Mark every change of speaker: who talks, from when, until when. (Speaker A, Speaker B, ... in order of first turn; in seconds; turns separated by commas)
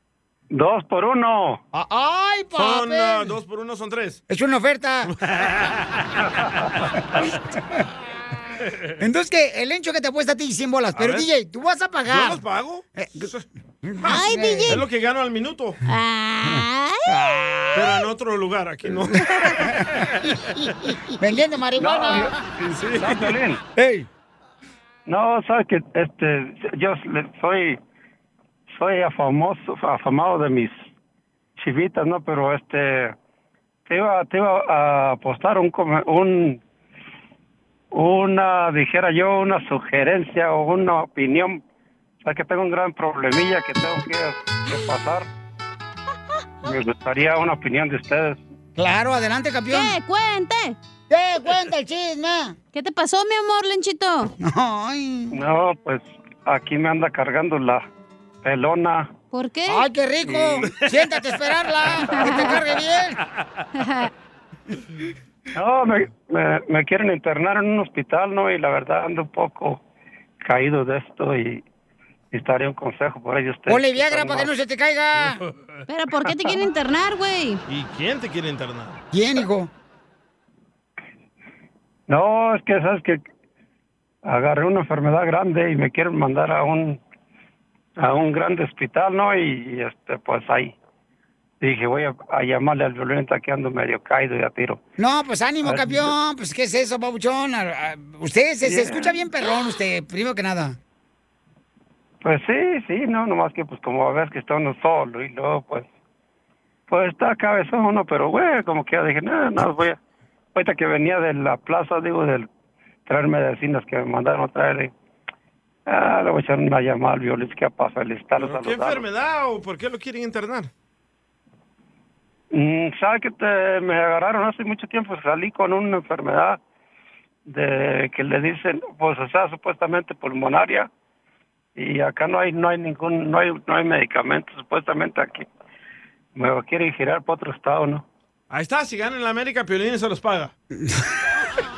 Speaker A: 0.5-1.6, Speaker B: 1.7-3.3, Speaker C: 2.6-4.2, Speaker B: 4.3-5.1, Speaker C: 5.1-6.2, Speaker B: 9.0-12.4, Speaker C: 10.9-11.3, Speaker C: 12.1-13.4, Speaker B: 12.9-13.3, Speaker B: 13.8-14.8, Speaker D: 14.1-14.8, Speaker C: 14.7-15.8, Speaker D: 15.9-17.3, Speaker B: 16.5-18.0, Speaker C: 17.8-20.3, Speaker B: 19.6-20.0, Speaker B: 21.2-22.3, Speaker A: 21.8-22.4, Speaker C: 22.6-23.4, Speaker A: 22.9-23.6, Speaker B: 23.8-24.1, Speaker A: 25.1-27.8, Speaker A: 28.8-30.9, Speaker A: 31.6-33.1, Speaker A: 33.9-36.6, Speaker A: 37.9-41.6, Speaker A: 42.2-45.3, Speaker A: 46.6-48.4, Speaker B: 48.8-50.0, Speaker D: 49.7-50.8, Speaker B: 51.1-52.6, Speaker D: 52.7-54.3, Speaker B: 54.4-55.4, Speaker A: 55.3-57.9, Speaker A: 58.4-59.1, Speaker D: 59.3-59.8, Speaker B: 59.7-63.2, Speaker C: 60.3-62.3, Speaker D: 62.2-62.6, Speaker D: 63.8-64.1, Speaker A: 65.5-69.8, Speaker A: 70.4-71.6, Speaker A: 72.3-74.5, Speaker B: 73.7-75.4, Speaker D: 75.9-77.6, Speaker C: 77.7-79.0, Speaker B: 79.1-79.7, Speaker A: 82.1-83.2, Speaker A: 84.3-87.0, Speaker A: 88.0-90.8, Speaker A: 91.6-94.8, Speaker B: 95.0-100.8, Speaker A: 95.6-96.1, Speaker A: 98.6-99.1, Speaker A: 102.2-105.9, Speaker A: 106.9-110.0, Speaker A: 110.5-112.5, Speaker A: 113.1-114.9, Speaker A: 115.9-119.0, Speaker C: 118.4-120.7, Speaker A: 122.5-126.6, Speaker A: 127.5-130.9, Speaker A: 131.8-135.5, Speaker A: 136.4-138.1, Speaker C: 138.5-140.5